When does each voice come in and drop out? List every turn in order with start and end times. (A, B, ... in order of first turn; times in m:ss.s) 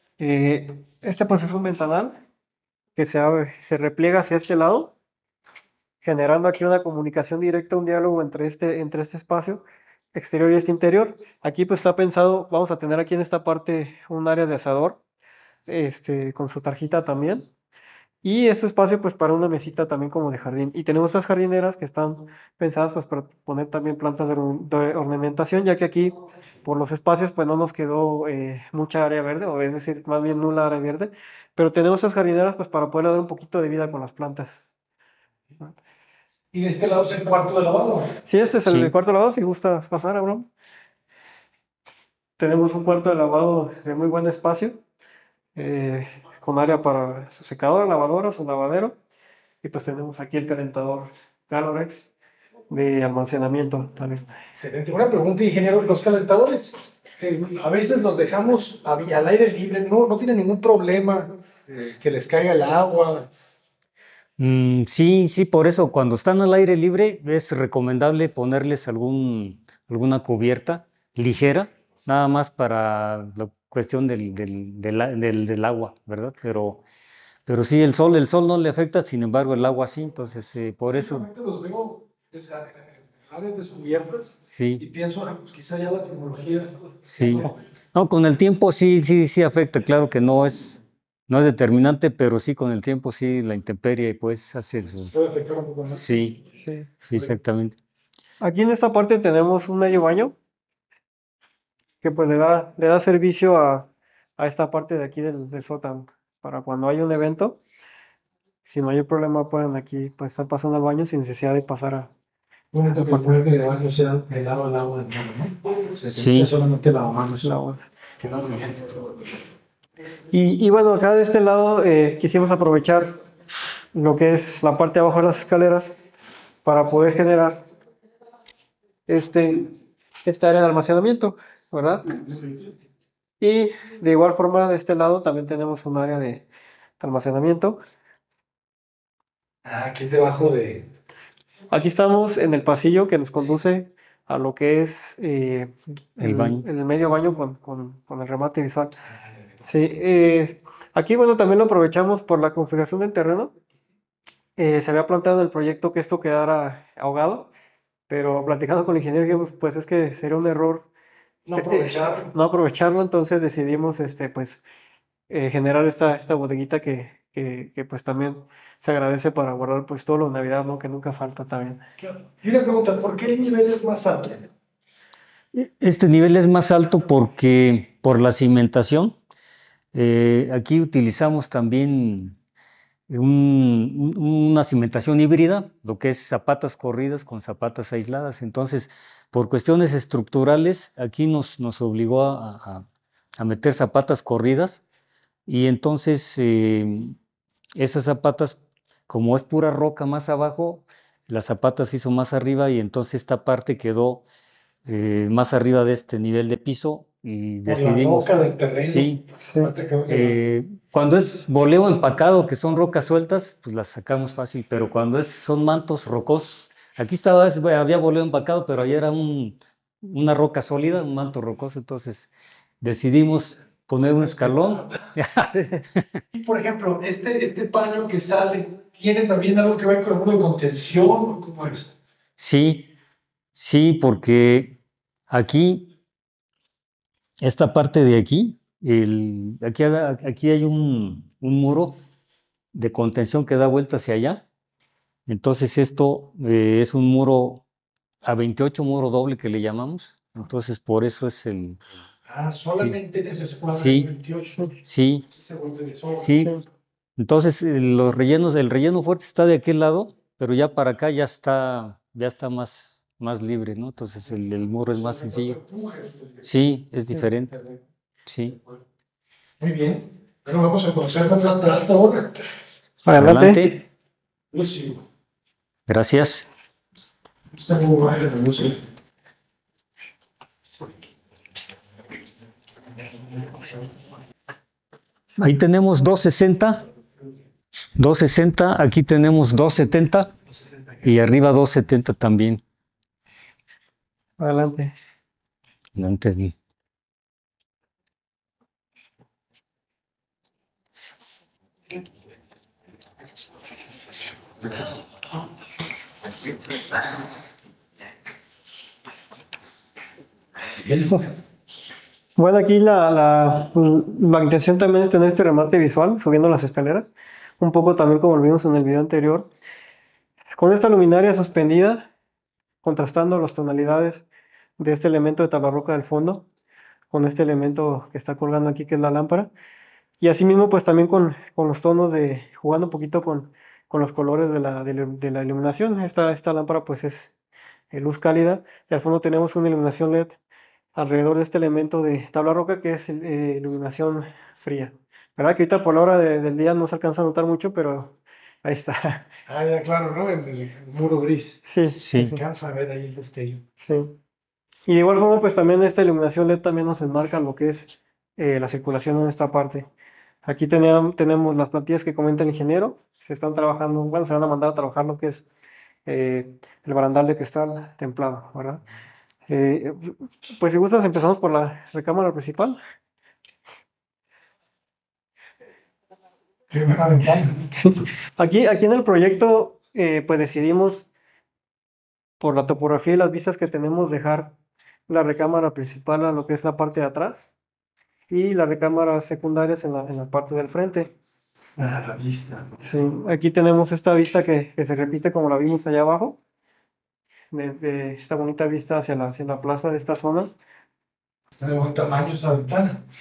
0:00.2-0:02.2 A
0:03.0-0:04.9 A
0:06.0-0:15.0 A
0:15.7-0:17.5 A
0:18.2-0:34.6 A
0:36.5-0:38.1 B
0:38.2-0:40.5 A
0:42.4-0:44.8 A
0:45.5-0:48.9 A
0:49.6-0:52.1 A
0:52.7-0:54.3 A
0:54.5-1:03.3 B
1:04.4-1:16.8 C
1:17.4-1:21.2 C
1:20.8-1:27.5 B
1:24.5-1:24.8 C
1:27.1-1:35.1 C
1:35.1-1:36.2 B
1:35.9-1:36.4 C
1:36.6-1:36.9 A
1:37.0-1:37.8 C
1:38.4-1:40.4 A
1:42.0-1:47.6 A
1:48.6-1:52.1 A
1:52.7-1:57.5 B
1:52.9-1:53.4 A
1:56.0-1:56.5 C
1:57.4-1:57.9 A
1:58.2-1:59.4 B
2:00.3-2:03.2 A
2:03.9-2:05.9 A
2:06.6-2:07.6 A
2:09.1-2:09.7 A
2:10.2-2:12.1 A
2:12.1-2:12.7 B
2:13.4-2:16.4 A
2:17.0-2:17.8 A
2:19.6-2:20.9 B
2:21.7-2:28.9 A
2:26.2-2:26.6 C
2:29.6-2:33.5 A
2:34.6-2:37.5 A
2:38.1-2:40.9 A
2:41.4-2:42.3 B
2:41.5-2:44.6 A
2:45.3-2:51.8 A
2:52.0-2:54.5 B
2:55.5-2:59.1 C
2:59.9-3:02.4 C
3:03.1-3:12.8 C
3:13.4-3:14.8 C
3:15.5-3:17.2 C
3:17.8-3:18.6 C
3:19.1-3:24.2 C
3:24.8-3:29.2 C
3:27.6-3:30.4 B
3:29.3-3:29.7 A
3:30.1-3:42.3 C
3:42.8-3:46.0 C
3:44.0-3:45.0 B
3:45.5-3:45.8 A
3:46.3-3:51.9 B
3:52.4-3:52.9 C
3:53.5-3:54.7 C
3:55.3-3:55.9 C
3:57.4-4:02.0 C
4:02.7-4:04.4 C
4:05.3-4:07.6 C
4:08.2-4:11.8 C
4:12.2-4:14.6 B
4:13.7-4:14.1 C
4:14.8-4:15.2 C
4:15.3-4:16.4 B
4:16.2-4:16.5 C
4:16.3-4:16.7 A
4:17.2-4:25.6 C
4:24.9-4:26.5 B
4:26.4-4:27.5 C
4:27.5-4:27.8 B
4:28.2-4:28.6 C
4:29.6-4:32.4 B
4:33.0-4:33.7 A
4:33.2-4:33.8 C
4:34.5-4:35.0 B
4:35.9-4:36.5 C
4:37.5-4:38.8 B
4:45.4-4:46.8 C
4:48.0-4:50.3 C
4:51.0-4:52.6 C
4:54.4-4:54.9 A
4:56.0-4:56.5 C
5:10.8-5:11.3 B
5:12.4-5:17.1 A
5:17.6-5:19.5 A
5:20.6-5:22.1 A
5:22.8-5:24.2 A
5:24.8-5:26.4 A
5:27.1-5:29.5 A
5:30.2-5:37.3 A
5:37.9-5:40.4 A
5:40.9-5:49.3 A
5:49.5-5:53.6 B
5:51.6-5:52.4 A
5:51.9-5:52.3 C
5:53.8-5:54.2 A
5:54.9-5:59.8 A
6:00.4-6:05.4 A
6:06.0-6:08.8 A
6:09.5-6:12.8 A
6:16.7-6:18.0 B
6:17.8-6:21.1 A
6:22.4-6:24.5 A
6:25.1-6:27.4 A
6:28.3-6:31.1 A
6:31.8-6:32.8 B
6:32.8-6:36.4 A
6:37.5-6:40.5 A
6:41.5-6:43.0 B